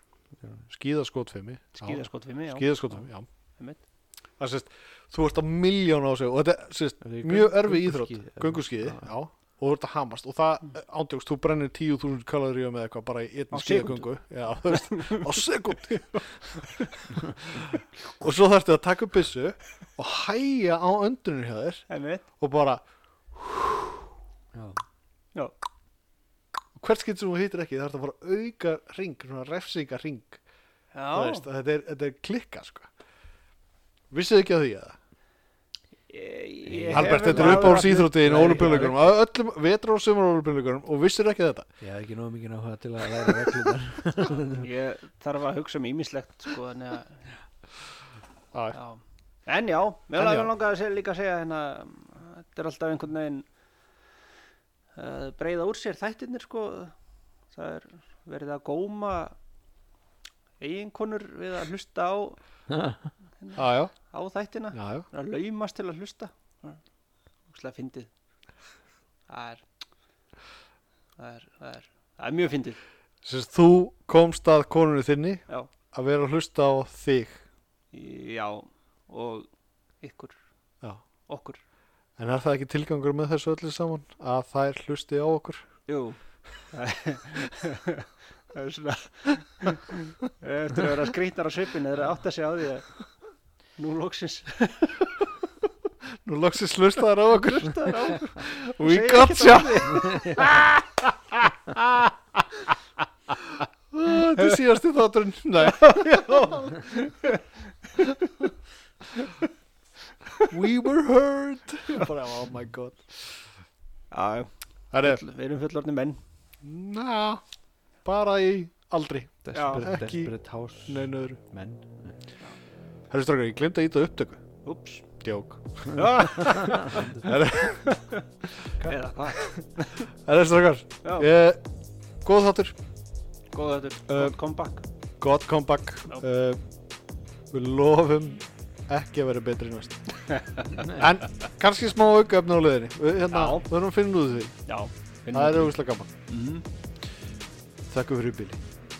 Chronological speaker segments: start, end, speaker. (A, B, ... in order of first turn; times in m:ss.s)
0:00.4-0:00.7 A
0:00.7-0:03.3 B
0:01.8-0:03.8 C
0:04.4-0:16.8 B
0:07.0-0:09.1 A
0:13.5-0:14.1 C
0:14.7-0:15.2 C
0:17.4-0:21.8 B
0:21.9-0:22.2 C
0:22.4-0:24.1 B
0:24.5-0:24.8 A
0:26.8-0:30.4 B
0:30.9-0:31.4 C
0:31.1-0:32.9 B
0:34.1-0:35.0 B
0:36.1-0:39.0 C
0:36.6-0:39.0 A
0:36.9-0:41.7 B
0:41.8-0:44.7 A
0:44.6-0:47.3 C
0:48.5-0:48.8 B
0:48.7-0:53.5 C
0:50.1-0:50.5 B
0:55.0-0:57.0 C
0:57.5-0:59.4 C
1:00.6-1:02.4 C
1:02.7-1:03.1 A
1:03.4-1:06.8 C
1:03.6-1:04.0 B
1:04.7-1:05.1 B
1:07.5-1:08.1 C
1:09.3-1:09.6 C
1:11.2-1:12.8 C
1:13.2-1:17.4 B
1:17.9-1:19.5 C
1:20.0-1:20.4 C
1:21.3-1:21.6 C
1:22.2-1:25.7 B
1:25.9-1:26.2 C
1:26.7-1:33.0 C
1:33.8-1:35.2 C
1:36.2-1:42.4 B
1:37.3-1:40.5 C
1:40.0-1:40.4 A
1:43.3-1:46.9 B
1:45.7-1:47.4 C
1:50.5-1:53.3 B
1:54.1-1:56.2 C
1:54.9-1:55.2 B
1:56.6-1:57.4 B
1:58.0-2:00.3 B
1:59.4-2:02.1 A
1:59.5-1:59.9 C
2:00.9-2:01.4 B
2:03.1-2:04.4 B
2:04.6-2:05.0 C
2:05.2-2:08.0 B
2:05.9-2:07.1 C
2:06.6-2:07.2 A
2:07.9-2:08.2 C
2:08.8-2:09.7 B
2:08.8-2:10.1 C
2:10.3-2:11.6 B
2:11.0-2:11.3 C
2:12.2-2:12.8 B
2:13.5-2:14.8 C
2:14.1-2:14.4 B
2:15.2-2:16.6 B
2:17.5-2:20.0 B
2:20.3-2:20.9 C
2:20.8-2:24.6 B
2:23.3-2:23.6 C
2:24.7-2:25.7 C
2:25.3-2:26.1 B
2:26.3-2:26.6 C
2:27.9-2:28.6 B